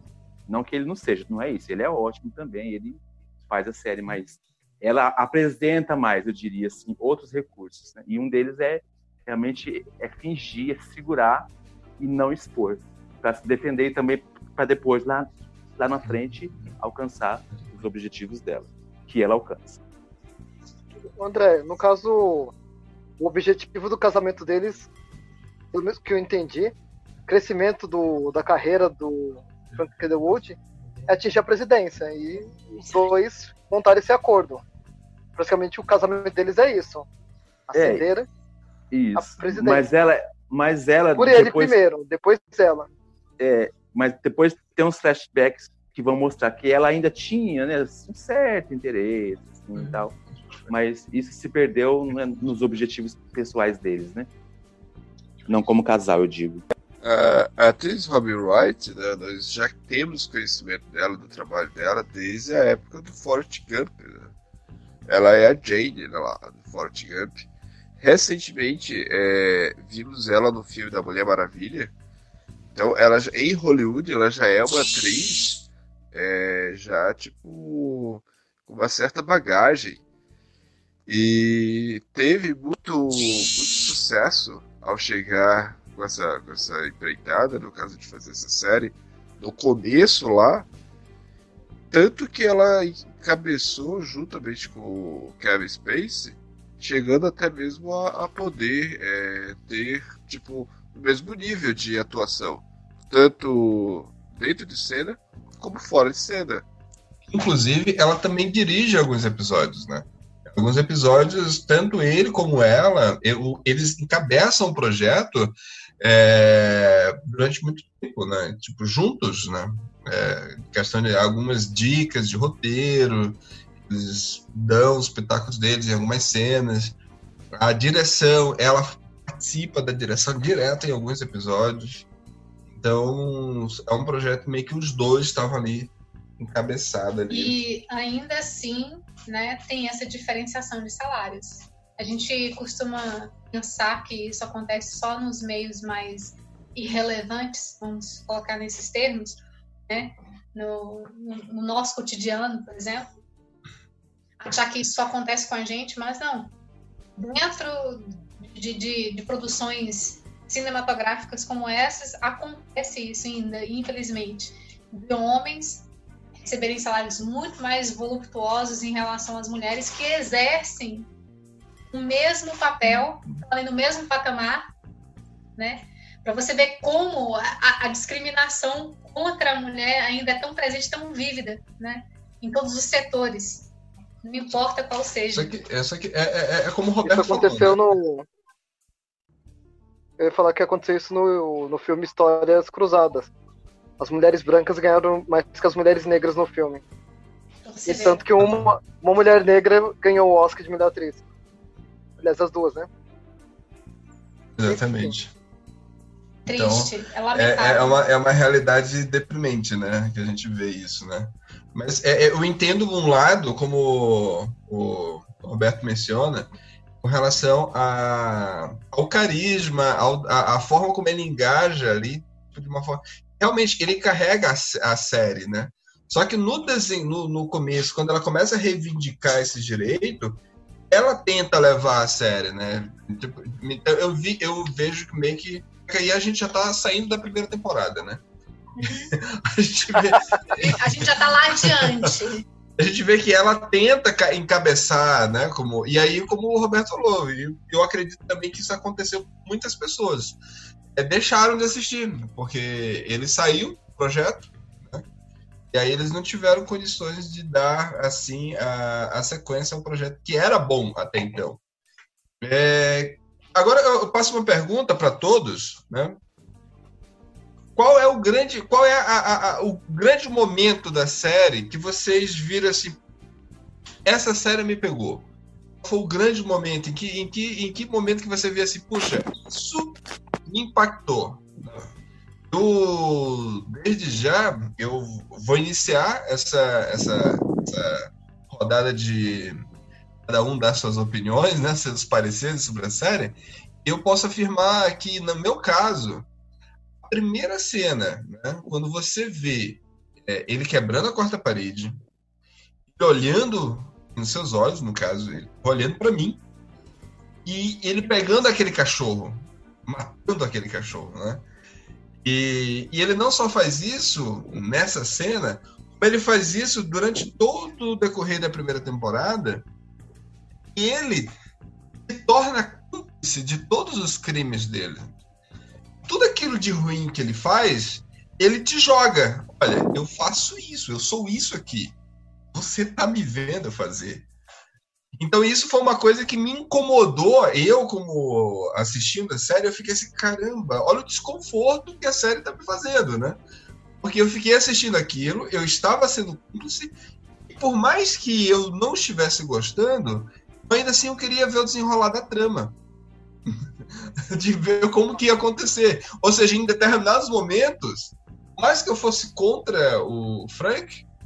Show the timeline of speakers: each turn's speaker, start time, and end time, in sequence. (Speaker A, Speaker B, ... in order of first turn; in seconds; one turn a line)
Speaker A: 0.5-19.8
Speaker B: 21.1-22.5
Speaker B: 23.2-24.9
Speaker B: 25.7-26.7
Speaker B: 27.3-34.6
Speaker B: 35.4-37.1
Speaker B: 37.7-38.3
Speaker A: 37.7-38.0
Speaker A: 38.9-41.8
Speaker B: 39.1-39.8
Speaker B: 41.1-42.9
Speaker A: 43.4-54.3
Speaker A: 55.5-56.6
Speaker C: 57.0-64.3
Speaker C: 65.1-67.5
Speaker C: 68.0-71.9
Speaker C: 72.7-80.0
Speaker C: 81.1-90.7
Speaker C: 91.9-106.7
Speaker D: 107.3-127.0
Speaker D: 127.5-132.1
Speaker D: 132.8-137.6
Speaker E: 137.3-153.1
Speaker E: 154.4-156.5
Speaker E: 157.2-165.9
Speaker E: 166.4-171.1
Speaker E: 171.9-174.7
Speaker E: 175.6-183.7
Speaker E: 184.2-185.5
Speaker D: 185.3-187.8
Speaker B: 187.0-188.3
Speaker B: 190.2-193.3
Speaker B: 194.0-196.8
Speaker E: 197.7-198.2
Speaker B: 197.8-201.2
Speaker B: 202.2-202.9
Speaker D: 204.6-205.3
Speaker B: 204.7-205.1
Speaker E: 206.4-208.0
Speaker D: 206.5-216.5
Speaker D: 217.0-238.2
Speaker D: 238.8-241.9
Speaker E: 240.6-242.4
Speaker D: 242.8-250.4
Speaker D: 250.9-255.1
Speaker D: 255.7-261.6
Speaker D: 262.4-266.2
Speaker D: 267.8-273.0
Speaker D: 274.0-275.3
Speaker D: 275.8-281.9
Speaker D: 282.5-289.6
Speaker D: 290.2-296.3
Speaker D: 297.0-302.0
Speaker D: 302.9-306.4
Speaker D: 307.4-311.4
Speaker D: 312.2-319.7
Speaker D: 320.7-321.3
Speaker D: 322.1-325.1
Speaker D: 326.0-331.9
Speaker D: 332.5-334.3
Speaker D: 335.2-343.4
Speaker D: 344.0-346.9
Speaker D: 347.5-352.8
Speaker D: 354.3-361.0